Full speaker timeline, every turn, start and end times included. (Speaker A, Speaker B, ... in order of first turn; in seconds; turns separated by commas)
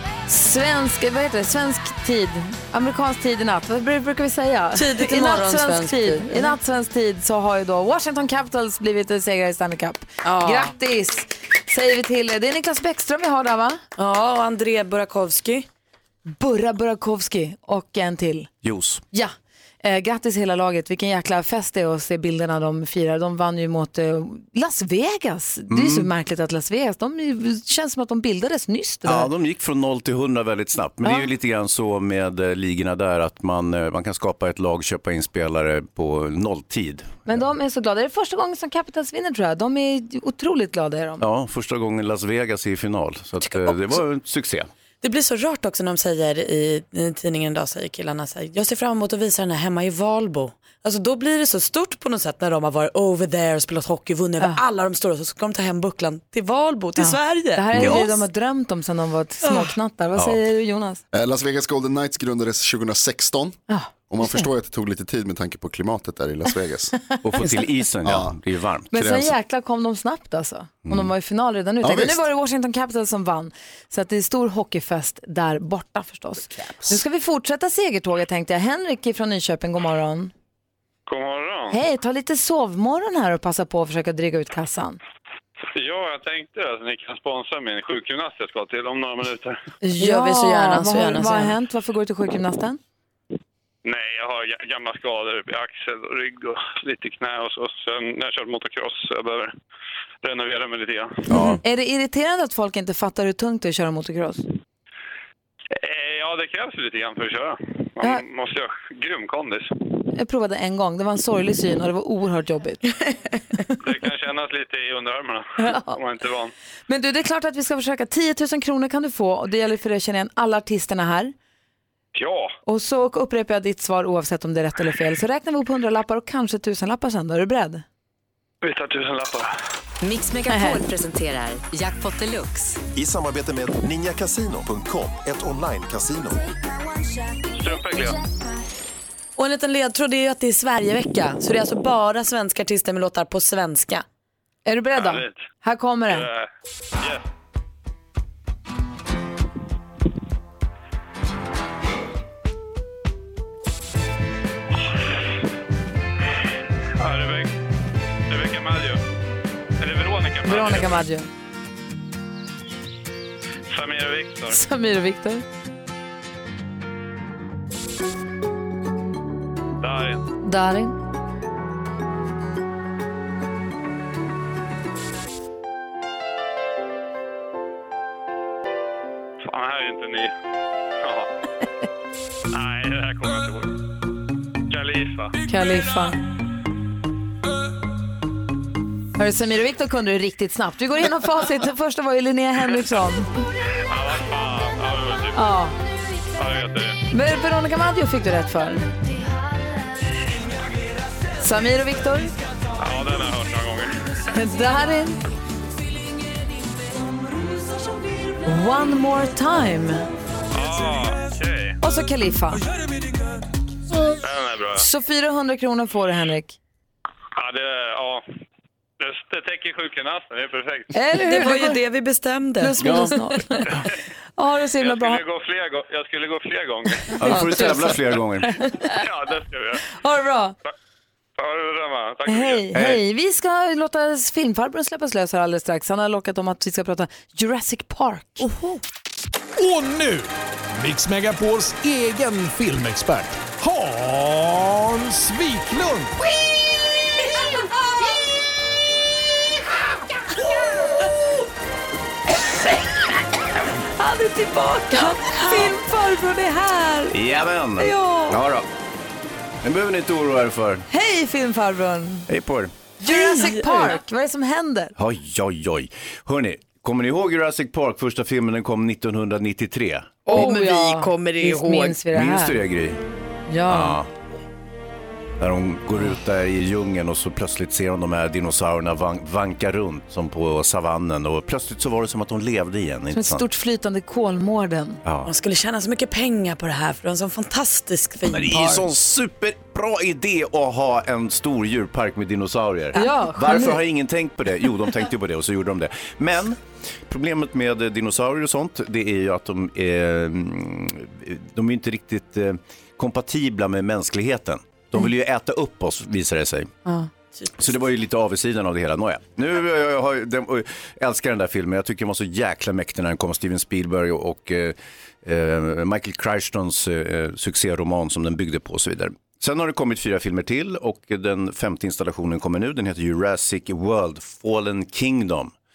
Speaker A: 0.3-13.8, Speaker B: 4.8-6.6, Speaker B: 10.2-10.7, Speaker B: 14.0-15.7, Speaker A: 16.4-18.5, Speaker C: 18.6-19.0, Speaker A: 19.1-29.3, Speaker C: 25.7-26.1, Speaker C: 29.1-37.1, Speaker A: 37.3-41.2, Speaker C: 41.2-44.7, Speaker B: 43.4-44.0, Speaker B: 45.0-58.2, Speaker A: 57.0-61.0, Speaker C: 57.8-58.0, Speaker B: 59.4-59.7, Speaker D: 61.1-63.6, Speaker A: 63.7-64.5, Speaker D: 64.1-66.9, Speaker A: 67.1-67.7, Speaker C: 67.2-69.3, Speaker D: 68.0-68.4, Speaker A: 68.9-80.3, Speaker D: 71.8-72.2, Speaker E: 81.1-81.8, Speaker A: 81.7-85.0, Speaker E: 85.8-89.6, Speaker A: 89.8-92.8, Speaker B: 90.0-91.6, Speaker E: 93.8-99.5, Speaker E: 100.2-101.2, Speaker C: 101.3-101.6, Speaker A: 101.6-104.5, Speaker E: 105.7-109.8, Speaker A: 110.2-112.9, Speaker E: 113.8-116.5, Speaker A: 115.6-116.0, Speaker A: 116.9-121.3, Speaker E: 122.2-122.5, Speaker A: 122.7-127.8, Speaker E: 128.6-129.5, Speaker F: 130.0-132.8, Speaker A: 130.5-130.8, Speaker G: 132.9-136.4, Speaker E: 137.5-138.2, Speaker B: 139.4-144.0, Speaker A: 144.7-146.3, Speaker E: 144.9-145.4, Speaker E: 146.1-146.5, Speaker E: 154.7-155.4, Speaker E: 157.0-157.5, Speaker E: 158.3-159.0, Speaker E: 159.8-161.0, Speaker A: 160.5-161.3, Speaker E: 163.7-164.6, Speaker A: 164.5-165.4, Speaker E: 169.8-170.2, Speaker A: 170.4-170.9, Speaker E: 179.5-180.3, Speaker E: 181.0-181.3, Speaker E: 182.5-183.8, Speaker E: 184.7-185.4, Speaker A: 185.5-186.2, Speaker A: 189.2-193.4, Speaker E: 193.9-195.4, Speaker A: 195.3-195.8, Speaker E: 196.4-197.0, Speaker A: 197.1-198.9, Speaker A: 201.4-202.3, Speaker E: 202.8-204.1, Speaker A: 204.3-205.2, Speaker A: 208.4-210.1, Speaker E: 210.5-211.8, Speaker A: 211.8-212.6, Speaker E: 214.2-214.9, Speaker A: 214.8-216.6, Speaker E: 217.4-218.2, Speaker E: 219.0-220.9, Speaker A: 220.9-221.8, Speaker B: 221.2-222.8, Speaker A: 222.6-223.8, Speaker C: 222.8-223.8, Speaker A: 224.4-225.2, Speaker E: 224.8-227.2, Speaker A: 227.1-229.0, Speaker C: 227.2-228.5, Speaker E: 228.9-229.8, Speaker A: 229.9-230.6, Speaker E: 231.4-232.7, Speaker A: 232.3-238.6, Speaker C: 232.7-233.0, Speaker H: 239.6-246.2, Speaker A: 254.0-257.1, Speaker B: 254.9-255.7, Speaker C: 257.1-258.7, Speaker A: 257.8-258.4, Speaker C: 259.6-260.9, Speaker A: 260.9-262.3, Speaker C: 262.3-262.7, Speaker A: 263.0-264.9, Speaker B: 263.0-264.0, Speaker C: 265.0-270.4, Speaker A: 270.3-272.6, Speaker B: 270.3-272.0, Speaker C: 272.1-273.0, Speaker A: 273.5-274.0, Speaker C: 273.7-274.1, Speaker C: 275.4-283.4, Speaker A: 283.1-285.0, Speaker C: 285.1-285.3, Speaker B: 285.2-288.9, Speaker C: 288.3-306.7, Speaker A: 292.9-293.8, Speaker B: 307.4-307.7, Speaker C: 307.6-325.5